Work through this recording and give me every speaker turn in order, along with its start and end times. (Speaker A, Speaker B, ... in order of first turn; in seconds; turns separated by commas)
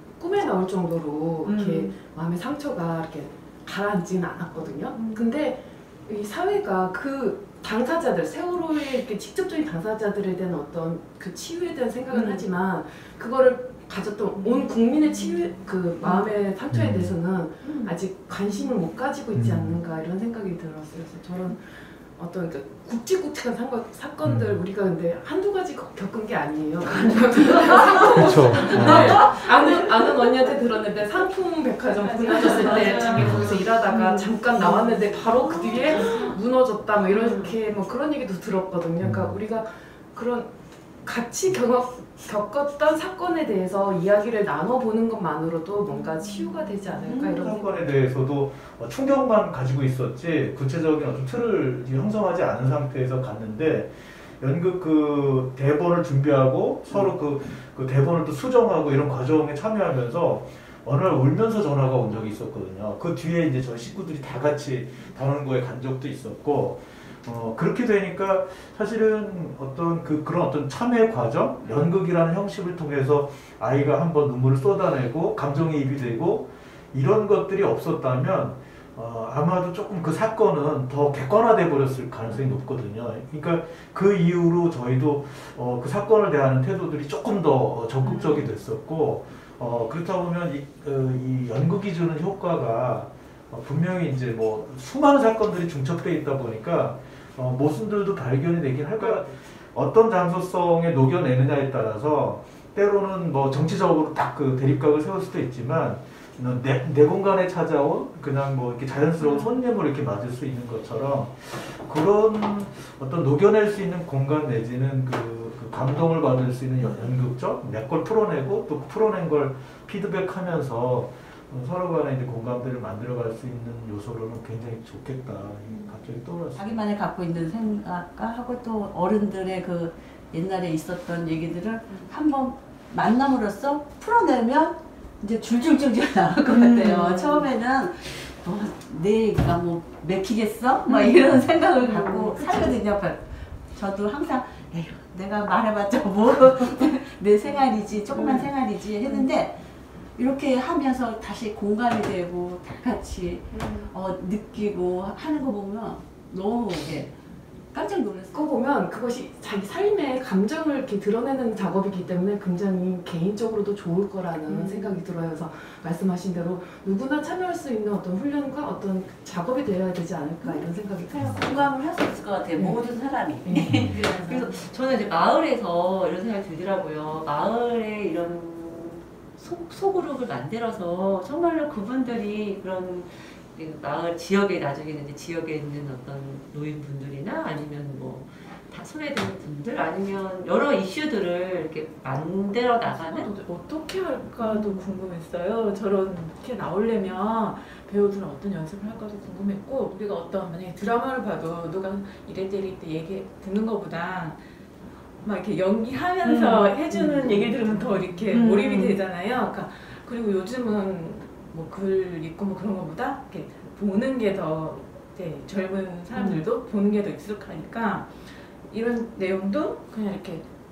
Speaker A: 0.1-47.8, Speaker B: 1.4-1.9, Speaker C: 16.8-17.1, Speaker C: 19.3-19.8, Speaker C: 24.2-24.6, Speaker C: 28.2-29.2, Speaker D: 31.9-34.0, Speaker C: 33.2-33.5, Speaker D: 34.9-36.3, Speaker C: 39.0-39.4, Speaker C: 47.0-126.8, Speaker D: 88.0-88.4, Speaker E: 126.5-149.6, Speaker B: 136.5-137.4, Speaker E: 150.1-157.1, Speaker E: 157.7-158.5, Speaker A: 158.3-171.8, Speaker E: 171.4-173.6, Speaker B: 173.5-193.3, Speaker D: 173.7-174.7, Speaker D: 192.8-204.6, Speaker D: 205.2-220.5, Speaker B: 206.2-206.6, Speaker B: 208.3-209.0